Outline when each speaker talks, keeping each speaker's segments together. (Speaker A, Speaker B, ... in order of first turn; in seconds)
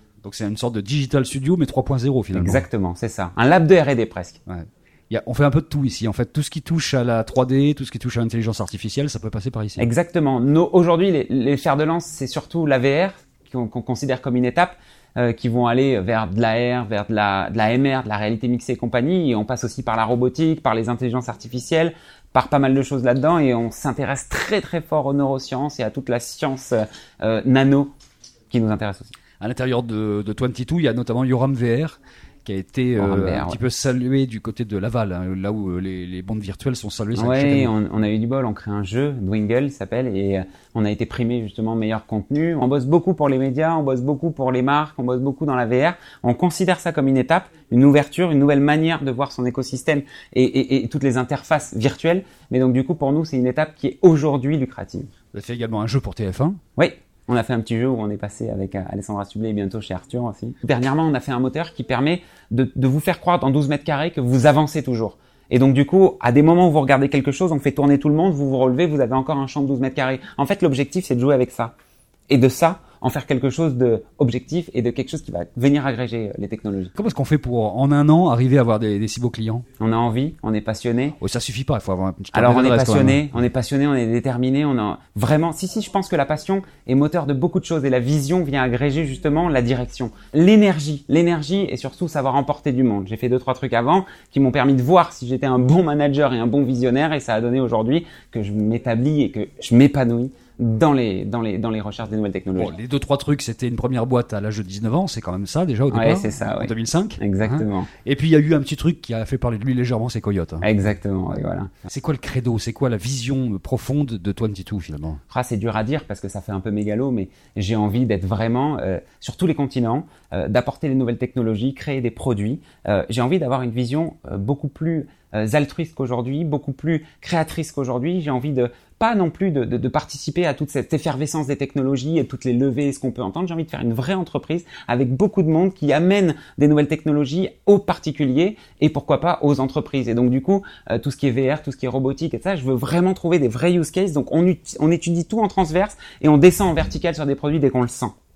Speaker A: 0.2-2.6, 4.5-9.9, 29.4-37.7, 55.3-56.6, 77.0-79.7, 81.2-83.3, 102.6-110.7, 111.9-115.2
Speaker B: 2.3-4.4, 9.8-27.9, 28.5-29.1, 33.0-33.6, 37.1-55.1, 56.8-71.7, 72.3-76.9, 79.8-81.2, 82.3-102.8, 105.9-107.9, 110.6-111.8, 115.3-148.1